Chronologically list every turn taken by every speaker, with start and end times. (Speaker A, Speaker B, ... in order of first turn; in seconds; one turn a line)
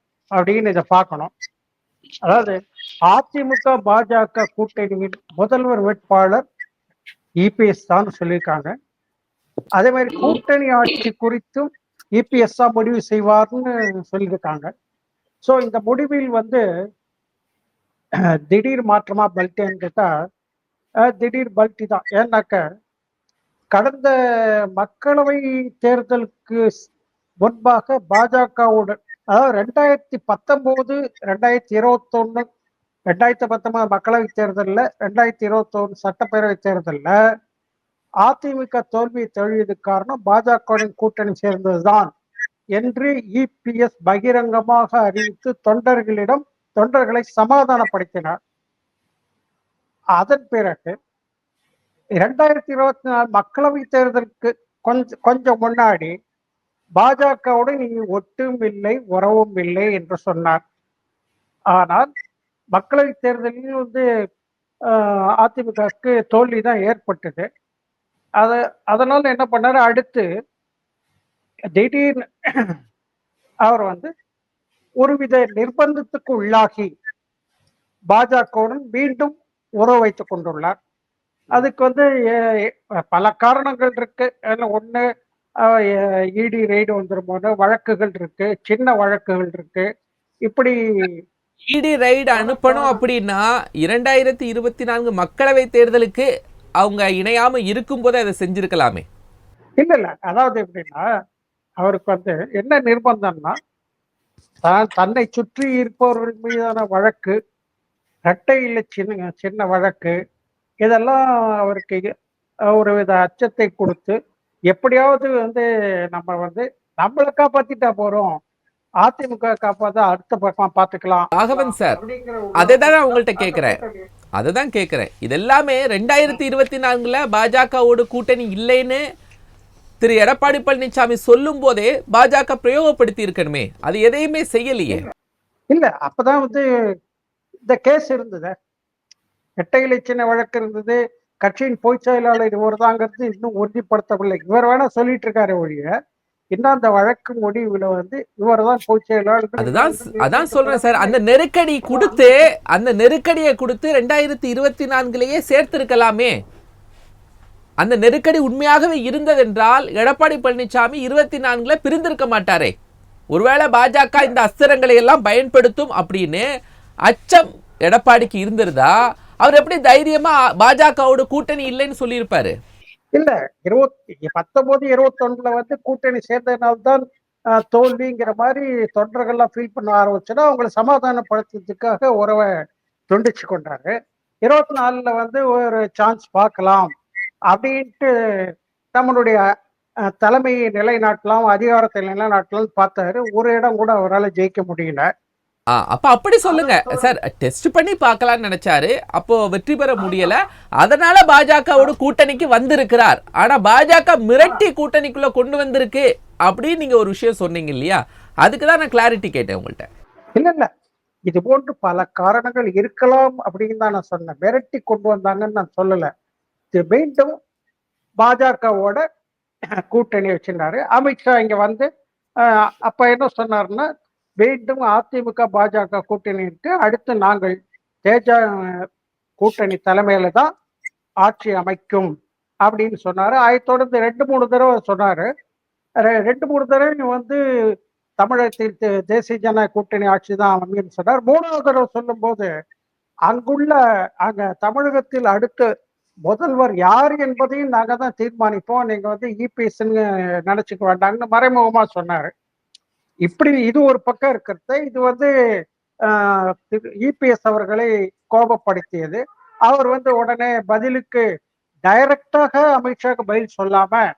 Speaker A: 0.4-1.3
Speaker A: 2.2-2.6
Speaker A: 3.1-6.4
Speaker A: 7.4-8.7
Speaker A: 9.8-14.7
Speaker A: 15.4-16.6
Speaker A: 18.5-20.1
Speaker A: 21.1-22.6
Speaker A: 23.7-24.1
Speaker A: 24.8-26.6
Speaker A: 27.4-32.4
Speaker A: 33.1-37.1
Speaker A: 38.2-42.1
Speaker A: 42.8-48.3
Speaker A: 50.2-50.9
Speaker A: 52.2-56.1
Speaker A: 57.0-60.6
Speaker A: 61.8-62.1
Speaker A: 62.7-64.0
Speaker A: 64.9-67.4
Speaker A: 68.4-70.2
Speaker A: 71.8-72.2
Speaker A: 73.7-74.1
Speaker A: 75.0-76.9
Speaker A: 78.1-80.7
Speaker A: 81.5-82.0
Speaker A: 83.1-85.0
Speaker A: 85.6-89.9
Speaker A: 90.5-91.1
Speaker B: 91.7-96.3
Speaker A: 92.3-93.0
Speaker B: 96.8-99.0
Speaker A: 99.8-101.0
Speaker A: 101.8-103.5
Speaker A: 104.6-107.3
Speaker A: 108.3-110.1
Speaker A: 110.8-112.0
Speaker A: 112.7-114.2
Speaker A: 114.7-118.3
Speaker A: 119.0-124.0
Speaker B: 121.3-122.0
Speaker B: 122.6-123.8
Speaker B: 124.4-129.0
Speaker B: 130.0-135.0
Speaker A: 135.7-136.6
Speaker A: 137.7-138.5
Speaker A: 139.6-145.9
Speaker A: 146.5-151.2
Speaker B: 149.6-156.3
Speaker A: 151.9-152.5
Speaker B: 157.8-162.7
Speaker B: 163.3-166.5
Speaker B: 167.1-168.9
Speaker B: 169.4-172.5
Speaker A: 173.2-177.0
Speaker A: 177.6-182.4
Speaker A: 183.1-183.9
Speaker A: 184.4-186.9
Speaker A: 187.5-188.1
Speaker A: 188.9-189.4
Speaker A: 190.2-195.0
Speaker B: 195.7-209.8
Speaker A: 196.4-197.1
Speaker A: 200.0-200.3
Speaker A: 210.4-210.7
Speaker A: 211.3-216.1
Speaker A: 216.7-217.3
Speaker A: 218.2-219.0
Speaker A: 219.9-221.9
Speaker A: 222.9-223.8
Speaker A: 224.4-228.4
Speaker A: 229.4-230.5
Speaker A: 231.2-232.1
Speaker A: 232.6-235.3
Speaker A: 236.1-237.4
Speaker A: 238.2-242.5
Speaker A: 243.3-245.6
Speaker A: 246.3-252.3
Speaker A: 253.2-255.3
Speaker A: 256.1-261.2
Speaker A: 261.9-264.0